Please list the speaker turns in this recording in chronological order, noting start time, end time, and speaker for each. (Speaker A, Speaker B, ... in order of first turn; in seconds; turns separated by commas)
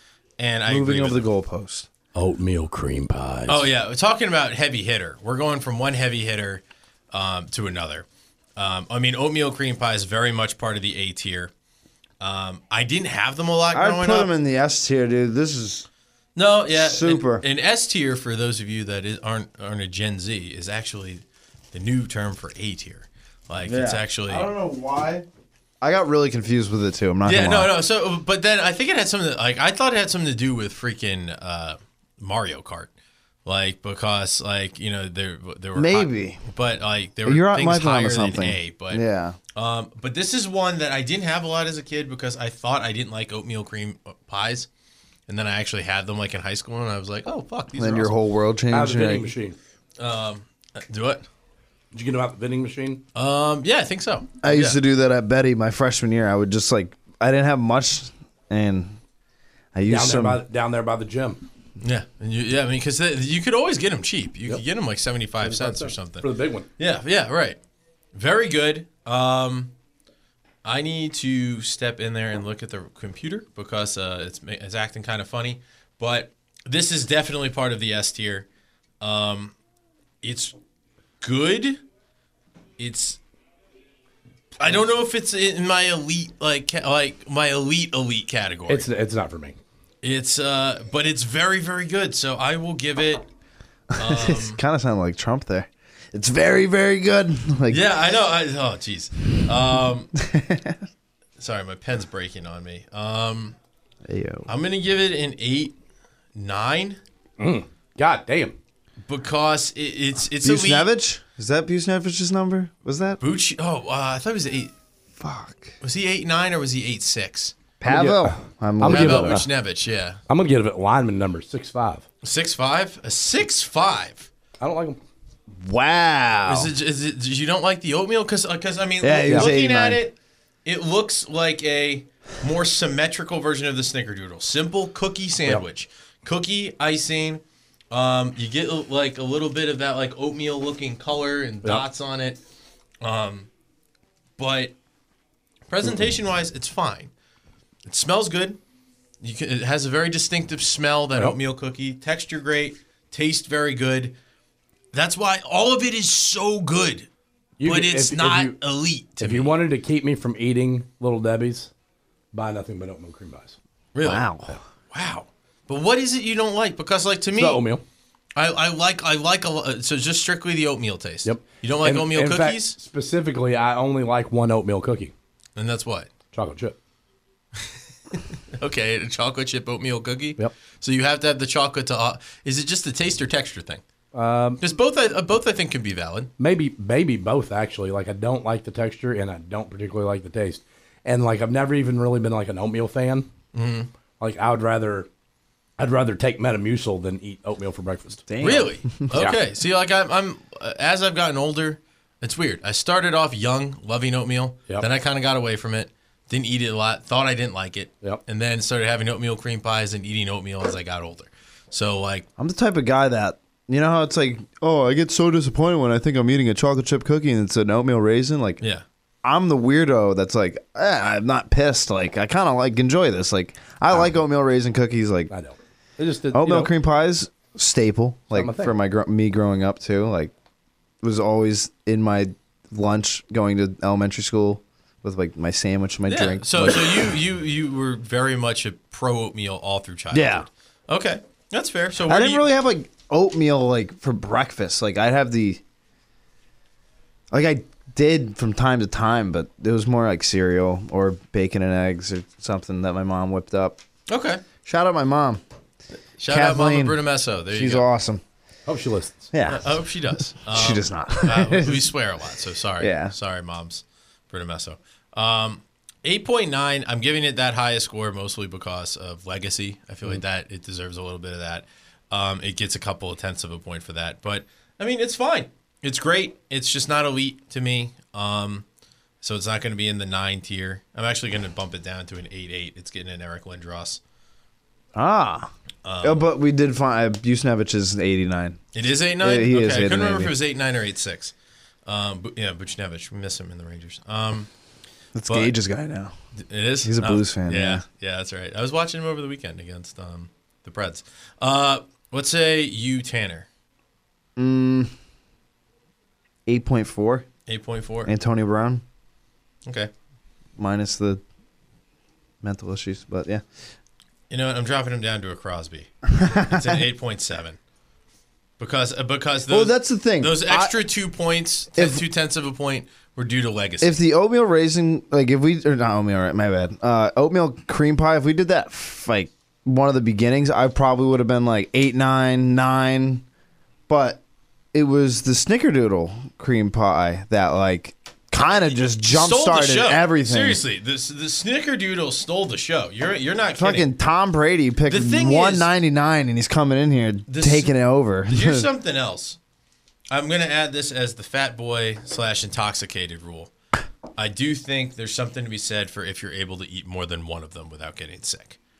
Speaker A: 0.4-1.2, Speaker B: 0.7-1.9, Speaker C: 2.1-3.7, Speaker A: 3.5-11.5, Speaker A: 12.2-14.3, Speaker B: 13.7-15.8, Speaker A: 16.4-24.5, Speaker B: 16.7-17.4, Speaker B: 23.6-25.2, Speaker B: 25.8-27.7, Speaker A: 27.2-32.9, Speaker A: 33.4-39.0, Speaker B: 35.7-36.4, Speaker B: 37.2-39.4, Speaker A: 39.5-44.7, Speaker A: 45.3-48.1, Speaker B: 47.8-49.3, Speaker C: 48.7-49.6, Speaker A: 50.0-51.2, Speaker C: 51.9-53.0, Speaker A: 53.1-54.8, Speaker B: 54.4-59.0, Speaker B: 59.7-60.4, Speaker C: 59.9-61.4, Speaker A: 61.8-67.6, Speaker C: 65.4-66.7, Speaker A: 68.1-69.7, Speaker A: 70.6-78.5, Speaker A: 79.0-79.5, Speaker A: 80.2-80.5, Speaker A: 81.2-81.8, Speaker A: 82.8-83.2, Speaker A: 84.6-88.8, Speaker C: 88.7-89.6, Speaker A: 90.0-93.3, Speaker A: 94.0-94.6, Speaker B: 94.0-97.9, Speaker A: 97.7-100.1, Speaker B: 100.2-100.8, Speaker A: 101.4-103.5, Speaker B: 104.0-104.5, Speaker A: 104.5-105.7, Speaker A: 106.3-107.0, Speaker C: 107.4-108.5, Speaker A: 109.1-110.9, Speaker B: 110.4-113.2, Speaker A: 113.2-114.7, Speaker B: 115.2-115.7, Speaker A: 115.8-117.6, Speaker B: 117.8-119.5, Speaker C: 117.9-119.5, Speaker A: 118.8-120.2, Speaker C: 120.3-122.0, Speaker A: 122.2-124.3, Speaker C: 124.6-125.0, Speaker B: 125.5-126.7, Speaker A: 126.5-142.4, Speaker B: 129.0-130.0, Speaker A: 143.0-143.5, Speaker A: 144.4-144.7, Speaker A: 145.7-147.1, Speaker A: 147.8-148.6, Speaker A: 149.2-154.1, Speaker A: 154.9-157.1, Speaker C: 157.6-158.6, Speaker A: 157.6-159.5, Speaker C: 159.2-161.7, Speaker C: 162.3-163.6, Speaker A: 163.9-164.4, Speaker B: 164.0-164.6, Speaker A: 164.9-167.6, Speaker C: 167.3-167.8, Speaker A: 168.3-172.8, Speaker C: 171.2-175.1, Speaker A: 175.6-176.1, Speaker C: 176.3-176.8, Speaker A: 177.7-183.8, Speaker C: 184.1-184.6, Speaker A: 184.6-186.3, Speaker C: 186.4-193.3, Speaker A: 193.5-193.9, Speaker C: 194.2-195.1, Speaker C: 195.8-198.3, Speaker B: 198.3-199.1, Speaker A: 198.4-212.2, Speaker C: 199.1-199.4, Speaker B: 212.4-218.6, Speaker B: 219.2-225.3, Speaker C: 225.3-226.7, Speaker B: 226.3-230.3, Speaker C: 228.3-228.7, Speaker B: 231.0-237.1, Speaker A: 236.1-242.4, Speaker B: 240.1-240.5, Speaker B: 242.0-245.6, Speaker B: 247.3-253.8, Speaker A: 254.1-254.4, Speaker B: 254.6-255.4, Speaker A: 256.2-257.9, Speaker B: 256.3-257.0, Speaker B: 257.5-258.2, Speaker C: 258.7-259.3, Speaker B: 259.3-259.8, Speaker A: 259.5-278.6, Speaker B: 260.3-261.9, Speaker B: 262.8-263.1, Speaker A: 279.2-284.0, Speaker B: 284.9-285.5, Speaker A: 285.8-286.2, Speaker B: 286.0-288.6, Speaker A: 288.7-291.3, Speaker B: 289.2-290.3, Speaker A: 291.9-294.5, Speaker B: 295.1-296.1, Speaker A: 295.3-295.5, Speaker A: 296.5-303.5, Speaker B: 296.8-297.8, Speaker B: 304.4-304.9, Speaker B: 306.4-307.2, Speaker A: 307.5-308.1, Speaker B: 308.0-308.8, Speaker B: 310.6-311.2, Speaker B: 312.4-313.4, Speaker A: 314.3-317.6, Speaker B: 316.1-316.8, Speaker A: 318.6-324.0, Speaker B: 319.5-320.8, Speaker B: 321.8-322.0, Speaker B: 323.8-333.2, Speaker B: 333.9-334.2, Speaker B: 334.7-340.6, Speaker A: 338.9-343.9, Speaker B: 343.6-348.7, Speaker A: 344.9-345.7, Speaker A: 347.3-347.7, Speaker A: 348.3-349.4, Speaker A: 350.1-353.5, Speaker A: 354.2-358.6